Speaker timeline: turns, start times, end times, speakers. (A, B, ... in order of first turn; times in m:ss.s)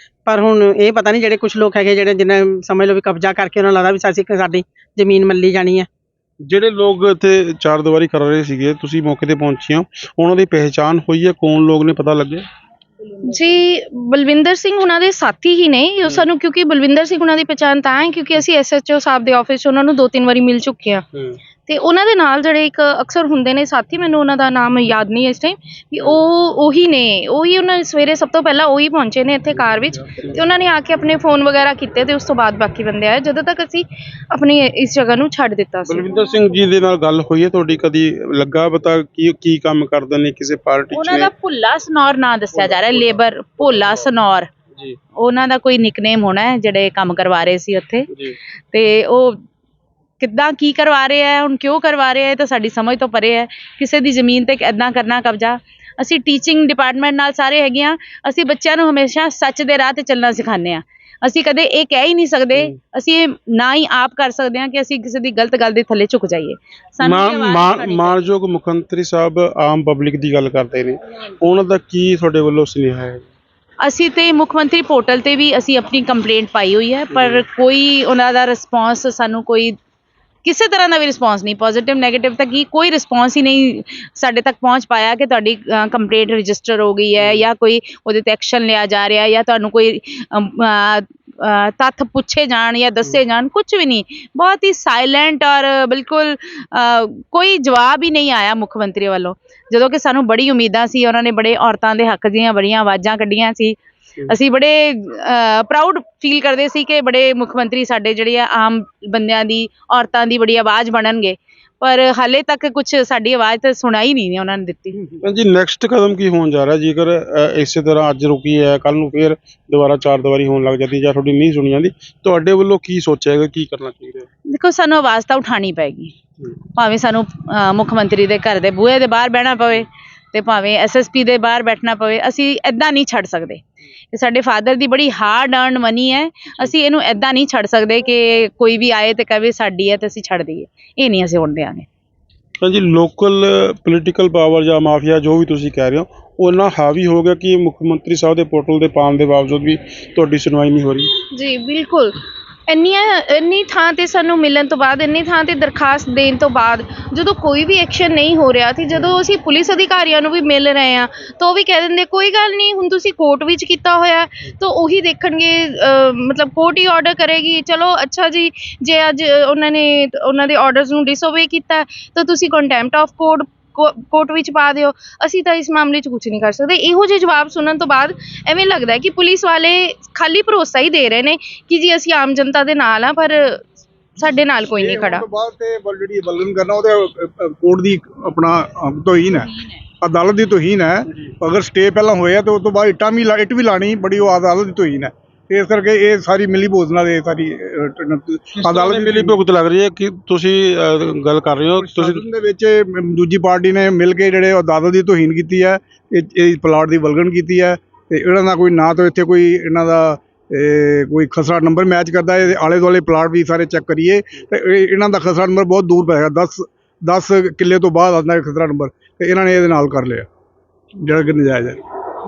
0:00.3-0:05.9 A
0:06.4-0:12.4 B
0:13.2-0:21.0 C
0:21.7-0:36.1 C
0:29.5-0:30.4 B
0:35.9-0:41.3 B
0:40.9-0:44.5 D
0:42.6-0:44.1 B
0:45.2-0:48.1 D
0:48.1-0:48.4 B
0:48.7-0:49.4 D
0:50.2-1:08.2 D
1:07.0-1:13.3 B
1:13.8-1:19.7 D
1:17.1-1:17.4 B
1:20.4-1:43.8 D
1:27.2-1:27.5 B
1:44.3-1:55.0 D
1:55.2-2:04.3 B
2:04.5-2:06.1 D
2:06.8-2:13.6 D
2:14.1-2:21.9 D
2:22.6-2:31.1 B
2:31.3-3:03.6 C
2:38.9-2:39.2 B
3:04.2-3:05.3 C
3:04.6-3:19.4 E
3:09.3-3:09.8 D
3:18.5-3:22.2 B
3:21.8-3:40.3 E
3:41.0-3:41.8 E